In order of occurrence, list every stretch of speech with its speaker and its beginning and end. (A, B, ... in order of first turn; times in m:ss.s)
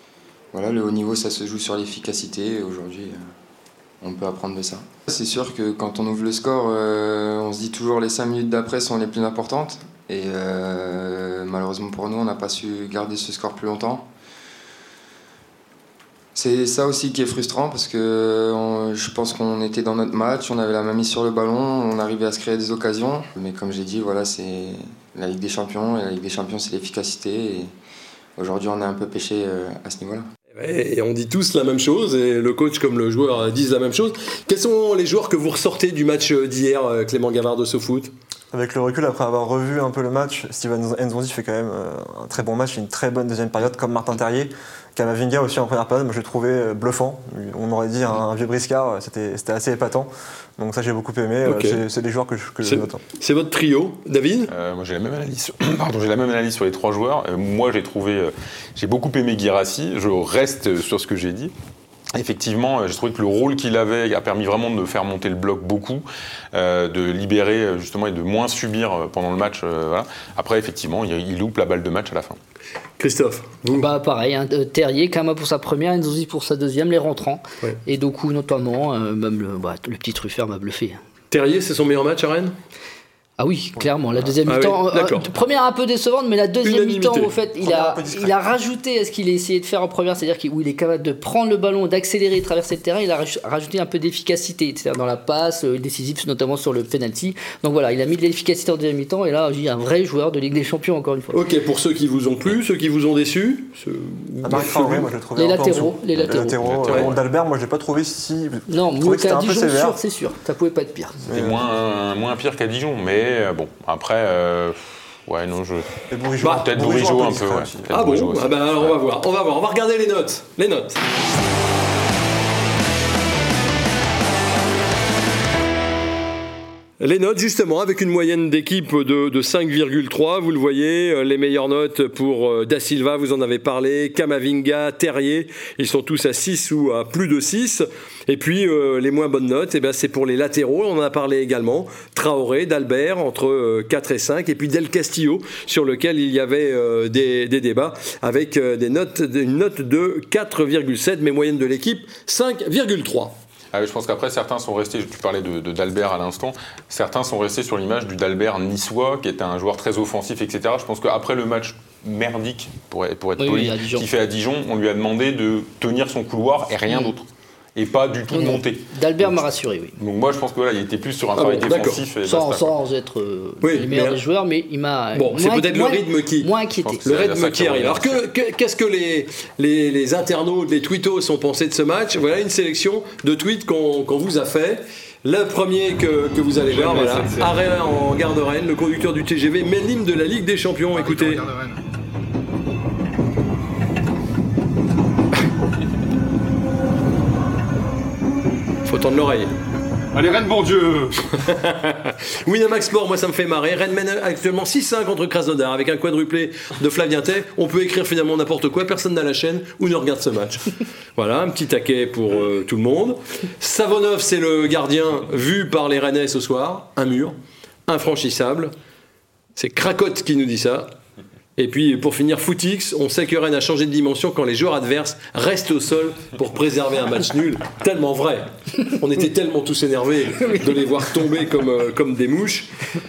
0:00.5-0:03.3 A
0:04.0-0:14.1 A
0:16.3-0:27.7 A
0:28.4-0:30.3 A
0:30.5-0:38.1 B
0:38.5-0:53.0 C
0:51.4-0:51.8 B
0:52.6-0:54.5 B
0:54.5-1:01.5 D
1:02.1-1:12.4 D
1:13.0-1:13.9 B
1:13.7-1:21.0 E
1:21.3-1:22.5 B
1:23.4-1:41.4 E
1:24.4-1:25.3 B
1:26.6-1:27.3 B
1:27.6-1:28.5 C
1:41.3-1:45.0 B
1:44.4-1:50.0 C
1:45.4-1:46.6 E
1:46.6-1:47.2 D
1:48.7-1:51.2 E
1:51.2-1:51.6 C
1:51.3-1:55.9 D
1:56.1-1:57.9 C
1:56.4-1:58.9 D
1:57.9-2:01.0 B
2:07.0-2:33.4 B
2:33.7-2:49.4 D
2:43.4-2:44.1 E
2:46.9-2:47.1 E
2:48.3-2:49.9 E
2:50.0-2:52.8 D
2:51.4-2:52.0 B
2:52.2-2:57.0 E
2:53.6-2:54.2 B
2:55.1-2:56.5 B
2:56.8-2:58.2 D
2:57.0-3:11.6 B
3:06.7-3:07.5 D
3:18.8-3:19.5 B
3:20.2-3:37.4 B
3:37.9-3:38.7 B
3:39.6-3:40.9 B
3:41.6-3:52.7 B